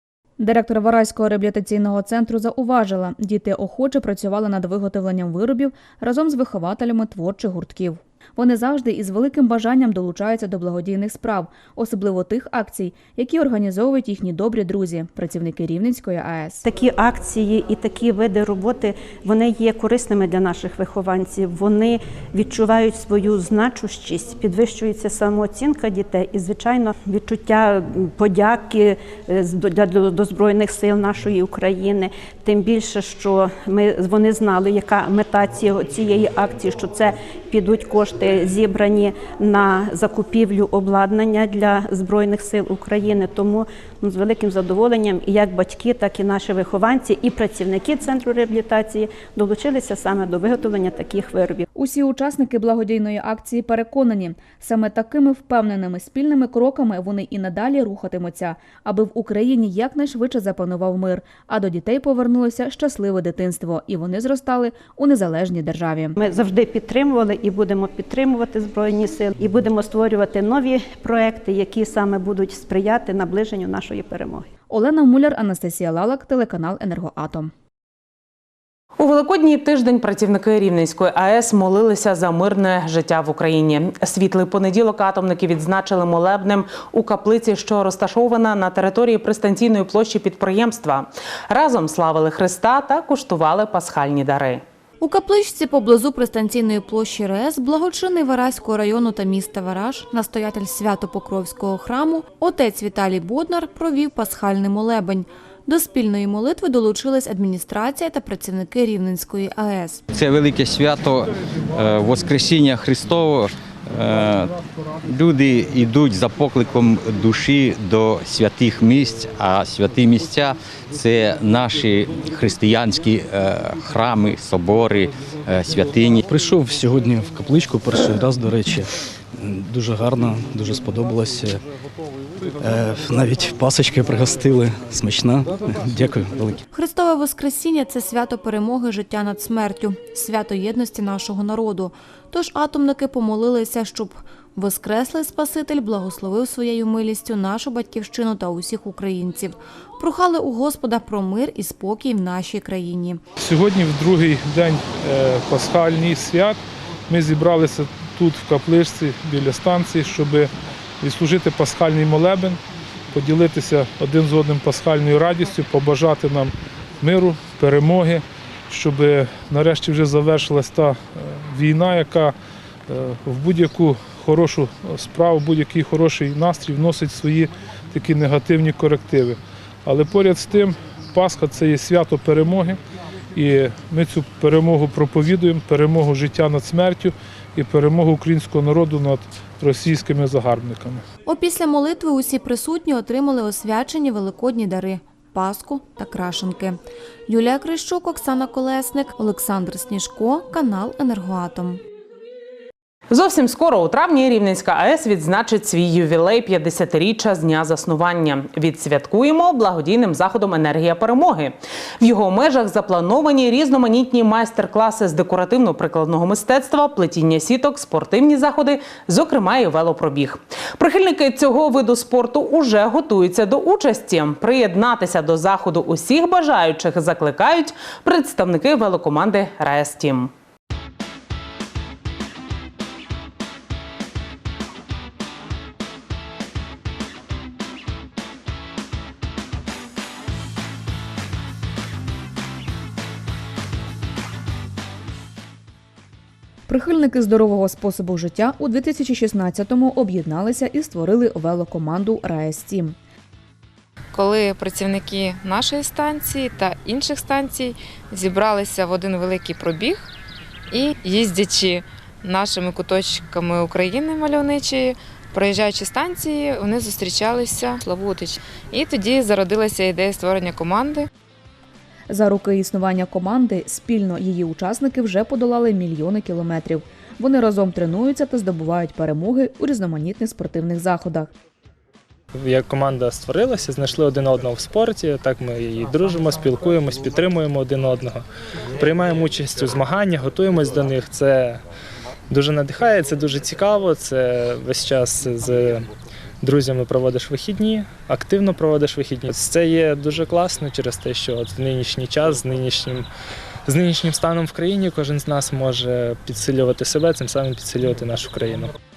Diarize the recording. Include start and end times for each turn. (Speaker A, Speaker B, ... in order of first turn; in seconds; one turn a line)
Speaker A: 0.4-16.6
Speaker B: 16.6-51.6
Speaker A: 51.7-66.2
Speaker B: 66.2-74.5
Speaker A: 74.7-77.5
Speaker C: 79.0-94.6
Speaker D: 95.0-110.0
Speaker E: 110.1-126.3
Speaker F: 126.3-131.6
Speaker F: 132.6-136.6
Speaker D: 136.7-153.2
Speaker G: 153.4-160.5
Speaker G: 161.0-162.6
Speaker G: 163.1-172.3
Speaker G: 172.9-182.8
Speaker G: 183.3-191.0
Speaker D: 191.2-201.8
Speaker C: 203.1-230.3
Speaker A: 246.7-252.9
Speaker H: 254.1-260.1
Speaker H: 260.7-271.1
Speaker A: 272.1-281.3
Speaker I: 282.3-288.2
Speaker I: 288.8-291.6
Speaker I: 292.3-295.9
Speaker I: 296.4-303.1
Speaker I: 303.6-308.7